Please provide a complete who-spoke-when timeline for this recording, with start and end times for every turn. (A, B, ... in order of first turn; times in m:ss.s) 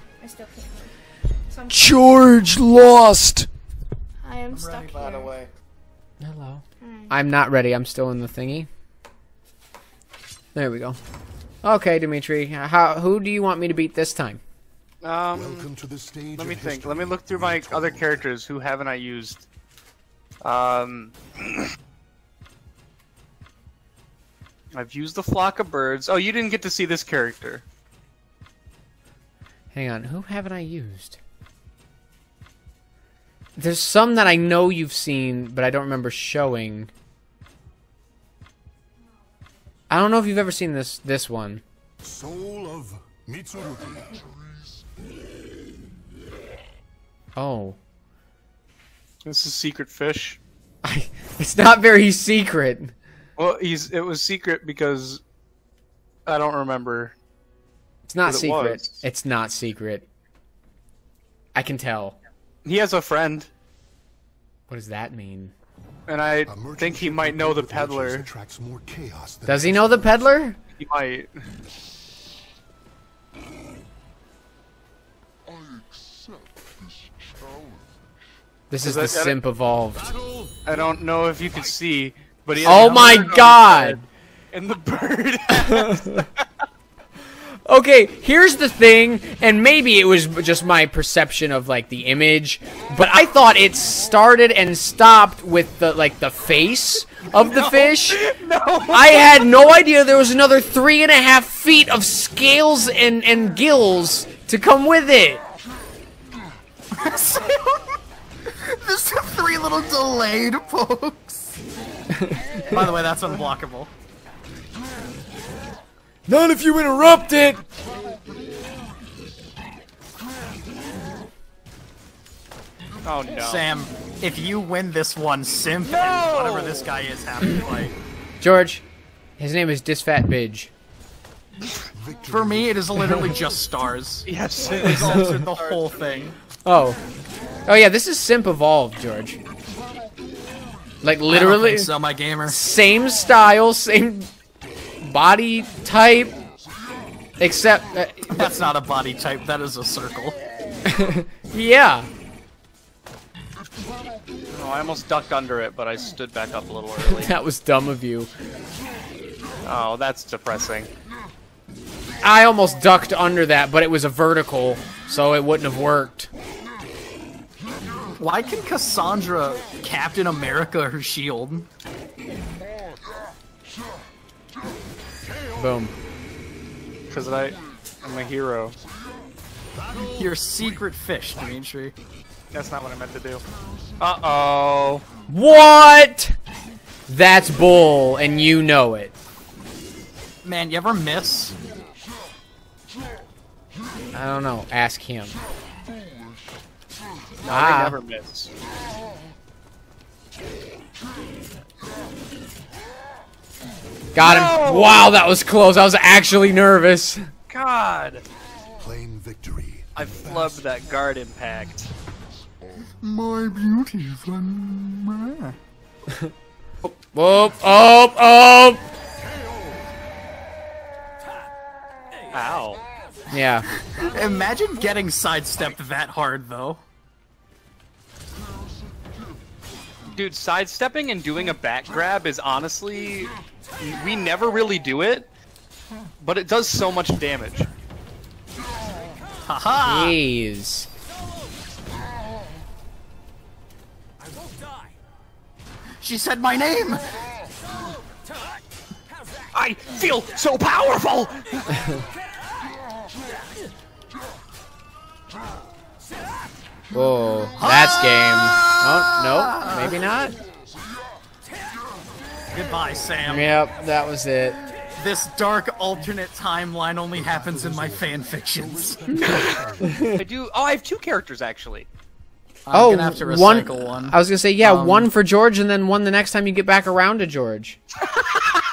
0:00.2-0:01.0 A
0:01.5-0:02.0 A
0:01.7-0:03.5 B
0:04.2-0:05.3 A
0:04.5-0:05.5 C
0:06.2-0:08.7 B
0:06.8-0:07.2 A
0:10.6-0:11.0 B
0:11.6-0:14.4 B
0:15.0-0:15.7 D
0:15.3-0:18.3 E
0:16.4-0:19.4 D
0:20.4-0:21.7 D
0:24.7-0:27.6 D
0:29.7-0:31.2 B
0:33.6-0:36.9 B
0:39.9-0:41.6 B
0:42.0-0:44.3 E
0:47.4-0:47.8 B
0:49.2-0:50.4 D
0:50.8-0:52.9 B
0:53.4-0:55.2 D
0:56.3-0:57.2 D
0:58.1-1:00.0 B
0:58.2-0:59.0 D
1:01.6-1:02.2 B
1:02.6-1:03.5 D
1:04.7-1:05.5 B
1:06.1-1:08.3 D
1:06.5-1:10.2 E
1:09.5-1:10.6 B
1:10.8-1:11.3 D
1:18.7-1:20.1 B
1:18.8-1:19.4 D
1:20.0-1:20.6 E
1:20.6-1:26.4 D
1:22.6-1:24.0 B
1:25.7-1:26.2 B
1:27.6-1:38.2 B
1:37.5-1:39.5 D
1:38.9-1:45.4 B
1:46.9-1:48.0 C
1:48.5-1:51.6 C
1:52.1-1:52.9 B
1:52.7-1:53.9 C
1:56.3-1:57.6 B
2:03.0-2:03.6 D
2:03.3-2:07.9 C
2:05.8-2:06.9 D
2:08.4-2:08.8 B
2:09.4-2:10.7 B
2:11.9-2:12.8 E
2:12.3-2:14.3 C
2:14.3-2:15.9 D
2:14.8-2:16.4 C
2:16.6-2:17.0 B
2:17.7-2:19.4 B
2:21.0-2:21.9 B
2:21.3-2:22.6 C
2:22.5-2:24.3 B
2:25.0-2:26.4 B
2:27.4-2:28.5 B
2:28.3-2:30.4 C
2:30.8-2:32.1 B
2:34.5-2:37.3 D
2:37.0-2:38.3 B
2:39.6-2:40.9 D
2:42.2-2:46.3 B
2:48.2-2:51.7 C
2:55.6-2:55.9 B
2:57.1-2:58.8 D
3:00.0-3:01.9 C
3:02.5-3:03.4 D
3:04.0-3:05.0 D
3:05.3-3:06.4 B
3:07.1-3:09.1 B
3:10.4-3:11.6 C
3:14.1-3:15.4 B
3:17.4-3:18.5 D
3:17.5-3:18.0 B
3:24.1-3:27.3 B
3:24.2-3:25.0 D
3:27.5-3:28.2 D
3:28.8-3:30.6 E
3:30.0-3:31.9 D
3:33.0-3:35.6 C
3:36.8-3:38.8 B
3:42.3-3:42.8 D
3:43.3-3:43.7 B
3:43.7-3:46.8 C
3:50.1-3:55.3 D
3:56.2-3:57.7 D
3:59.5-4:00.2 C
3:59.8-4:00.9 B
4:06.0-4:07.1 C
4:09.5-4:11.7 D
4:16.9-4:20.4 B
4:17.6-4:20.0 C
4:22.5-4:23.5 C
4:23.3-4:24.6 B
4:25.0-4:29.0 C
4:27.2-4:30.2 E
4:29.1-4:31.9 D
4:29.8-4:30.2 B
4:32.7-4:35.1 C
4:32.7-4:37.8 B
4:38.2-4:38.6 D